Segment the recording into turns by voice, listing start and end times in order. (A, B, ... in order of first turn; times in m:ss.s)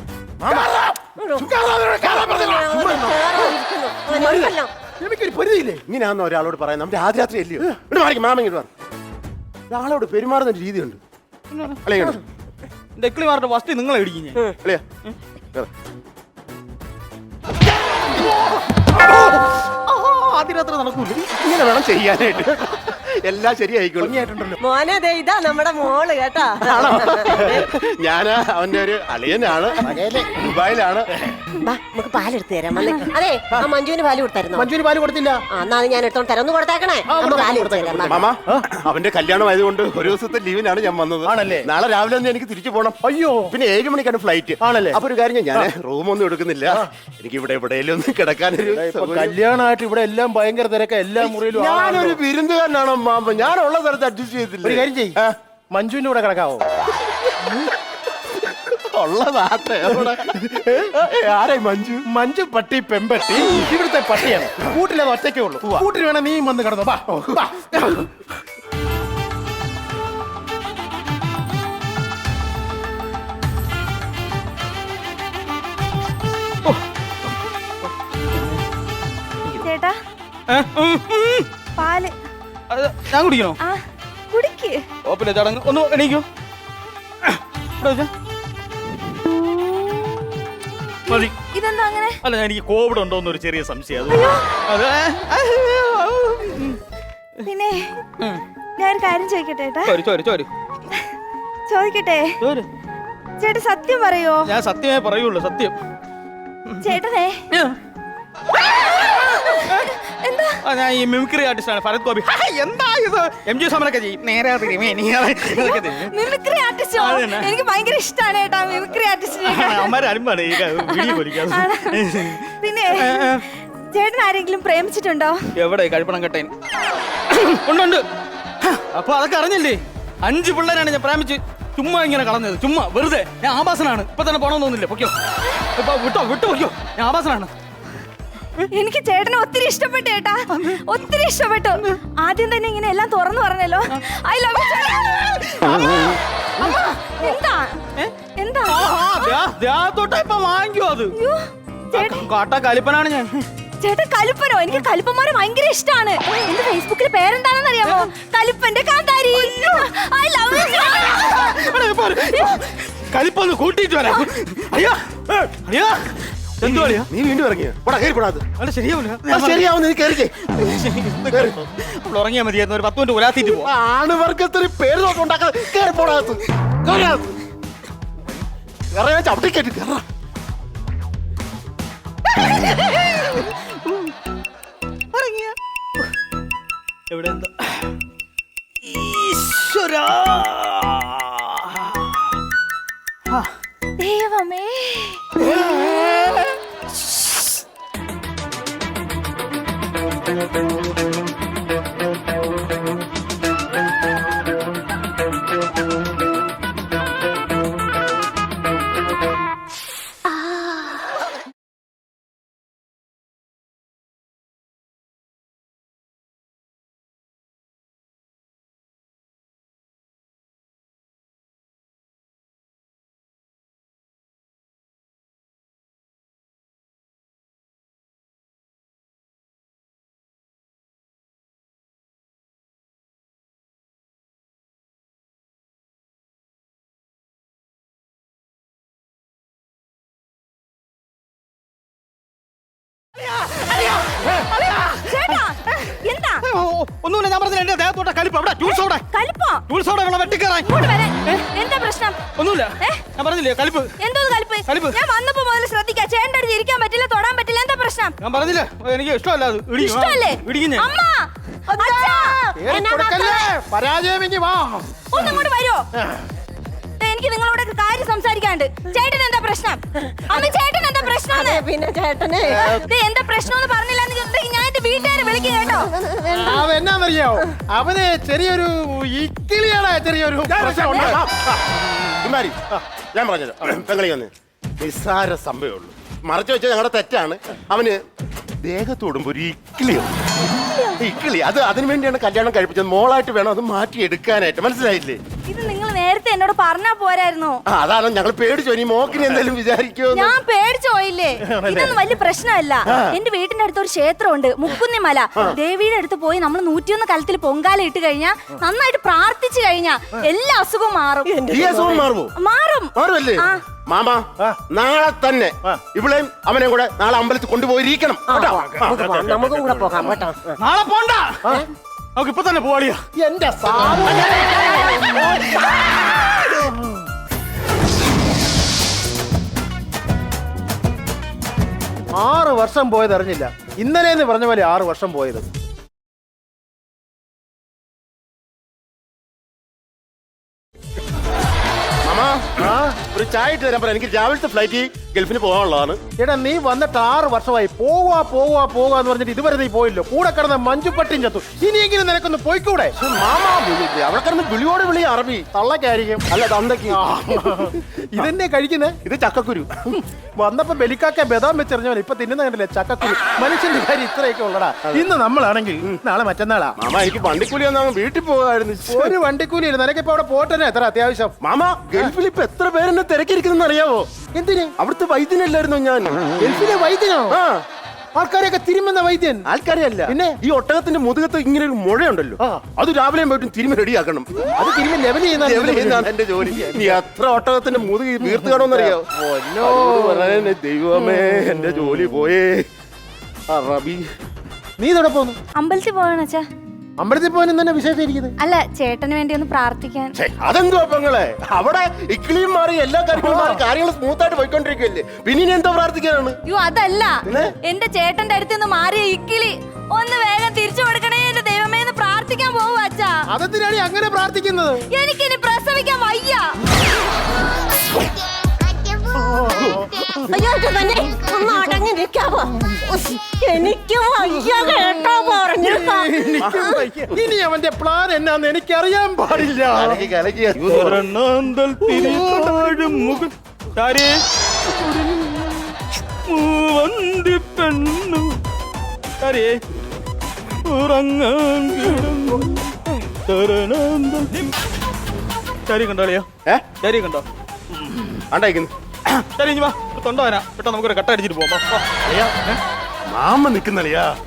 0:00.4-0:00.8 A
0:00.5-0:01.0 B
0:01.2-0:01.5 C
0:01.4-0:03.5 A
0:01.7-0:02.7 B
0:02.2-0:04.7 C
0:04.1-0:05.8 B
0:05.9-0:08.7 A
0:09.7-0:11.0 A
0:11.5-0:11.8 D
0:11.8-0:12.2 A
0:13.0-0:14.5 D
0:17.9-0:21.4 D
0:21.4-0:24.1 A
0:24.0-0:24.6 B
0:24.6-0:27.7 C
0:26.7-0:31.1 A
0:29.8-0:30.5 B
0:31.6-0:34.7 C
0:34.6-0:35.4 B
0:35.5-0:38.2 C
0:37.1-0:38.6 B
0:38.1-0:49.4 A
0:41.3-0:41.7 B
0:43.0-0:43.5 B
0:44.6-0:45.0 B
0:48.7-0:52.2 B
0:51.2-0:55.4 A
0:54.6-0:55.2 B
0:55.7-0:56.6 B
0:57.0-0:57.6 A
0:58.4-1:02.0 A
1:02.1-1:08.1 B
1:19.6-1:20.0 E
1:20.5-1:21.5 D
1:21.8-1:22.1 E
1:22.7-1:23.6 D
1:23.6-1:24.8 E
1:25.0-1:26.3 D
1:27.2-1:28.1 D
1:29.6-1:30.0 E
1:31.1-1:32.2 E
1:31.1-1:31.4 D
1:32.2-1:36.8 D
1:34.1-1:34.5 E
1:37.5-1:38.0 E
1:38.8-1:40.0 E
1:39.9-1:40.5 D
1:41.7-1:42.4 E
1:42.4-1:42.7 D
1:43.4-1:44.5 E
1:44.5-1:45.8 D
1:46.7-1:47.0 D
1:46.8-1:47.4 E
1:48.7-1:50.6 E
1:50.6-1:56.2 D
1:55.5-2:00.0 E
1:57.0-1:57.6 D
1:59.4-2:03.4 D
2:00.7-2:02.0 E
2:02.6-2:05.4 E
2:05.6-2:06.5 D
2:07.3-2:08.0 D
2:08.6-2:15.2 D
2:15.8-2:17.5 D
2:18.7-2:27.8 E
2:20.5-2:21.0 D
2:24.7-2:27.4 D
2:28.0-2:31.1 D
2:28.4-2:29.4 E
2:31.2-2:32.3 E
2:31.9-2:33.5 D
2:33.8-2:42.6 E
2:37.8-2:38.1 D
2:39.4-2:39.8 D
2:40.5-2:47.1 D
2:46.6-2:48.5 A
2:48.6-2:49.7 D
2:49.3-2:50.4 A
2:50.5-2:53.7 D
2:51.3-2:51.6 A
2:53.5-2:57.2 A
2:58.9-3:00.0 A
3:02.3-3:04.1 D
3:05.1-3:05.6 D
3:07.1-3:07.9 D
3:08.8-3:12.3 D
3:14.0-3:15.3 E
3:15.4-3:16.5 D
4:03.3-4:09.0 D
4:04.3-4:06.4 E
4:08.6-4:09.6 E
4:09.7-4:11.4 D
4:10.6-4:12.2 E
4:12.4-4:13.9 D
4:14.0-4:18.2 E
4:14.7-4:15.0 D
4:18.2-4:20.9 D
4:19.8-4:23.5 E
4:21.7-4:25.4 B
4:22.7-4:23.1 C
4:25.1-4:25.9 E
4:26.0-4:26.3 B
4:27.0-4:31.6 E
4:31.0-4:32.9 C
4:32.7-4:35.9 E
4:35.6-4:36.7 C
4:36.3-4:41.2 B
4:40.5-4:42.6 A
4:43.1-4:48.0 A
4:48.6-4:50.3 A
4:50.6-4:51.0 E
4:51.0-4:55.2 A
4:55.5-4:57.6 E
4:57.7-5:00.4 A
5:00.1-5:11.4 E
5:01.4-5:02.0 B
5:02.9-5:03.2 A
5:11.3-5:12.1 C
5:11.5-5:12.3 A
5:12.4-5:13.6 E
5:13.0-5:19.9 A
5:18.3-5:20.6 C
5:18.5-5:19.2 B
5:20.6-5:21.5 D
5:22.2-5:23.0 D
5:23.2-5:25.8 B
5:24.3-5:25.1 C
5:26.4-5:27.0 B
5:32.2-5:35.5 B
5:42.0-5:46.0 A
5:42.6-5:43.0 B
5:46.2-5:52.9 B
5:53.0-5:55.5 A
5:55.5-5:56.2 B
5:56.3-5:58.3 A
5:56.9-5:59.0 B
5:59.0-5:59.9 A
5:59.9-6:06.8 B
6:06.8-6:09.2 A
6:08.9-6:11.3 B
6:11.4-6:14.1 A
6:14.4-6:14.7 B
6:14.8-6:16.3 A
6:16.4-6:17.4 B
6:17.3-6:17.6 A
6:18.2-6:19.5 B
6:19.5-6:24.4 A
6:20.1-6:20.4 B
6:24.6-6:27.0 B
6:25.4-6:29.1 A
6:28.2-6:31.6 B
6:29.6-6:32.6 A
6:33.5-6:34.1 A
6:34.8-6:35.4 B
6:35.6-6:36.4 E
6:37.0-6:38.4 B
6:38.4-6:40.1 E
6:40.2-6:46.4 A
6:43.2-6:43.6 B
6:46.5-6:53.2 E
6:53.3-6:54.9 B
6:54.9-6:56.4 E
6:59.1-7:00.1 B
7:00.3-7:06.8 C
7:04.4-7:04.9 B
7:05.6-7:10.1 B
7:06.4-7:06.8 A
7:09.6-7:11.0 A
7:10.6-7:14.2 D
7:11.9-7:12.9 B
7:14.7-7:18.4 D
7:19.2-7:19.6 D
7:20.7-7:22.8 D
7:23.3-7:24.5 D
7:25.7-7:27.2 D
7:28.3-7:28.7 A
7:29.1-7:31.9 D
7:32.0-7:32.3 A
7:33.1-7:34.1 A